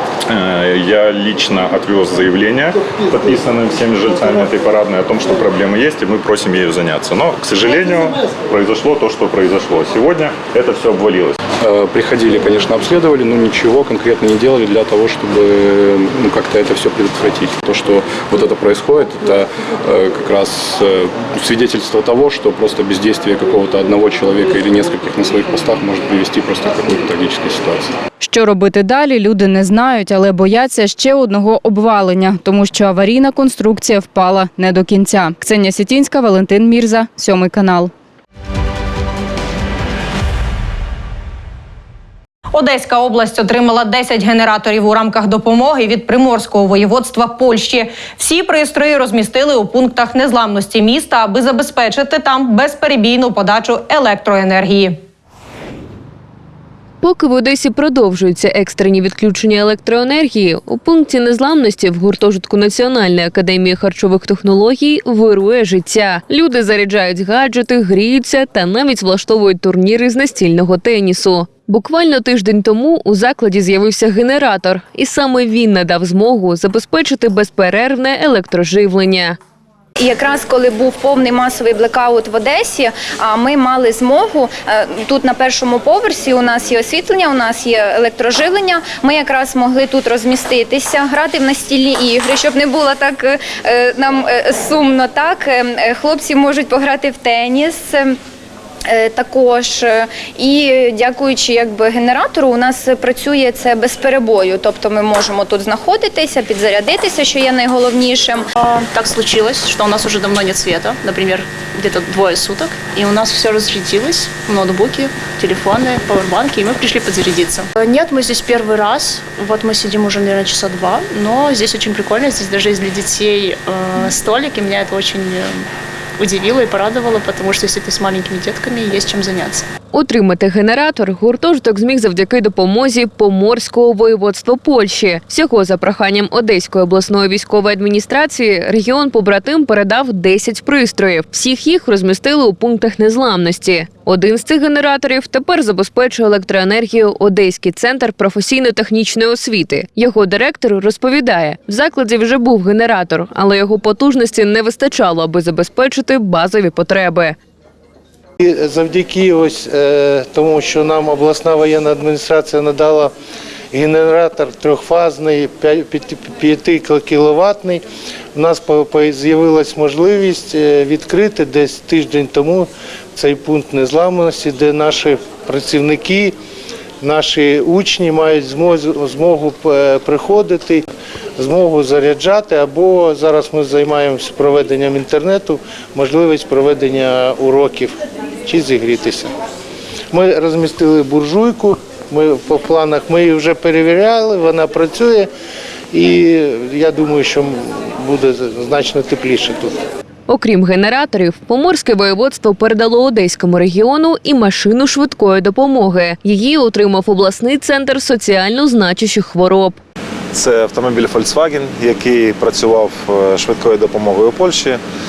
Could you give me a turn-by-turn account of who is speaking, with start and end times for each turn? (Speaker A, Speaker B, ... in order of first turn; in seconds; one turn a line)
Speaker A: 0.3-11.4
Speaker B: 11.6-27.9
Speaker C: 28.2-37.9
Speaker D: 42.5-55.0
Speaker E: 57.0-79.4
Speaker F: 80.0-98.2
Speaker F: 98.9-108.5
Speaker G: 108.6-129.7
Speaker E: 129.9-157.4
Speaker H: 158.4-163.1
Speaker H: 163.7-167.8
Speaker H: 168.3-176.3
Speaker H: 177.0-189.3
Speaker H: 190.1-195.3
Speaker H: 195.9-199.8
Speaker E: 200.3-209.8
Speaker I: 210.3-214.8